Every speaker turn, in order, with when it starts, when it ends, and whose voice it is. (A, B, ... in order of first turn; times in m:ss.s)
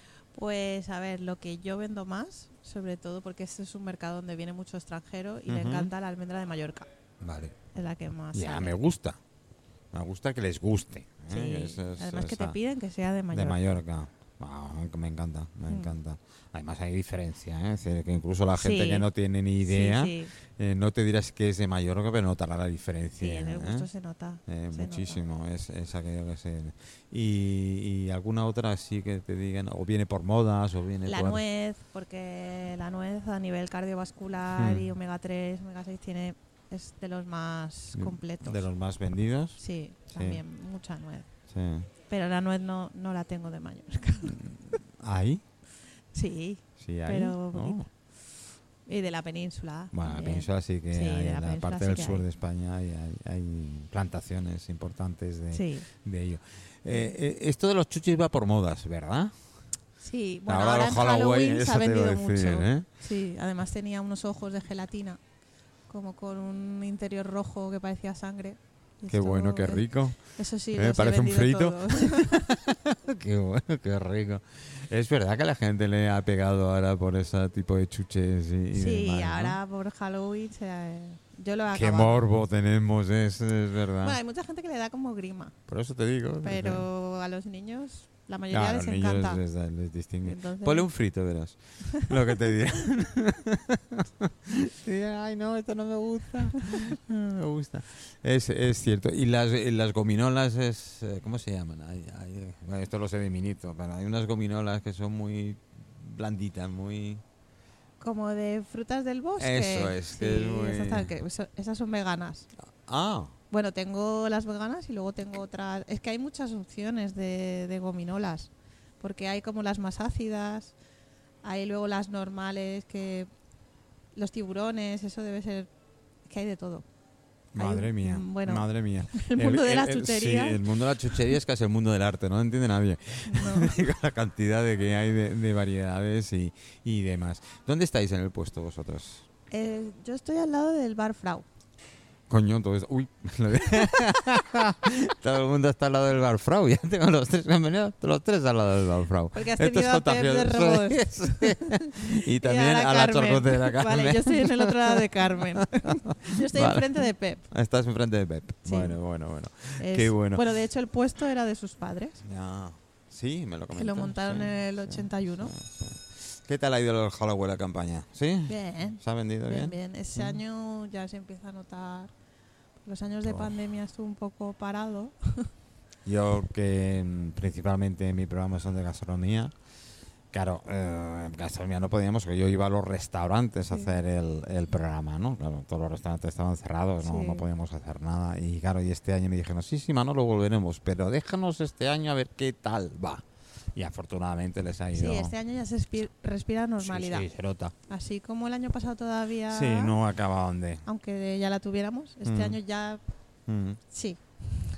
0:00.3-0:06.9 A
0:05.5-0:05.9 B
0:07.2-0:07.6 B
0:07.7-0:08.7 A
0:08.3-0:09.2 B
0:09.9-0:12.6 B
0:11.3-0:13.7 A
0:13.3-0:23.9 B
0:18.6-0:19.0 A
0:19.6-0:20.3 A
0:23.2-0:25.2 A
0:24.4-0:31.4 B
0:31.0-0:38.6 A
0:34.6-0:34.9 B
0:37.9-0:39.6 B
0:39.6-0:41.3 A
0:40.1-0:40.4 B
0:41.5-0:41.9 B
0:42.1-0:44.4 A
0:44.2-0:45.4 B
0:46.1-0:47.9 A
0:46.8-0:47.8 B
0:48.8-0:52.2 A
0:49.9-0:59.3 B
0:55.5-0:55.9 A
1:00.0-1:05.2 A
1:00.5-1:02.8 B
1:05.9-1:12.5 A
1:09.1-1:10.2 B
1:10.7-1:19.6 B
1:18.7-1:22.2 A
1:21.7-1:24.2 B
1:24.0-1:25.5 A
1:25.7-1:26.9 B
1:26.4-1:29.4 A
1:28.5-1:47.2 B
1:30.2-1:30.8 A
1:48.0-1:52.5 A
1:49.4-1:51.1 B
1:52.8-1:53.3 B
1:53.5-2:00.7 A
2:01.4-2:03.3 A
2:04.1-2:05.7 A
2:06.3-2:06.8 A
2:07.5-2:19.2 B
2:07.6-2:10.6 A
2:13.3-2:13.7 A
2:19.5-2:21.4 A
2:22.3-2:40.4 B
2:29.3-2:31.9 A
2:32.4-2:37.4 A
2:38.6-2:39.0 A
2:39.8-2:42.2 A
2:42.2-2:50.4 B
2:43.7-2:45.5 A
2:48.5-2:52.1 A
2:52.8-2:55.2 A
2:53.2-2:53.6 B
2:56.0-2:59.5 B
3:00.3-3:13.2 B
3:07.0-3:07.4 A
3:13.7-3:15.3 B
3:14.9-3:17.2 A
3:16.8-3:17.7 B
3:17.9-3:19.9 A
3:19.5-3:20.8 B
3:20.8-3:23.0 A
3:22.2-3:22.6 B
3:23.5-3:23.8 B
3:23.9-3:24.2 A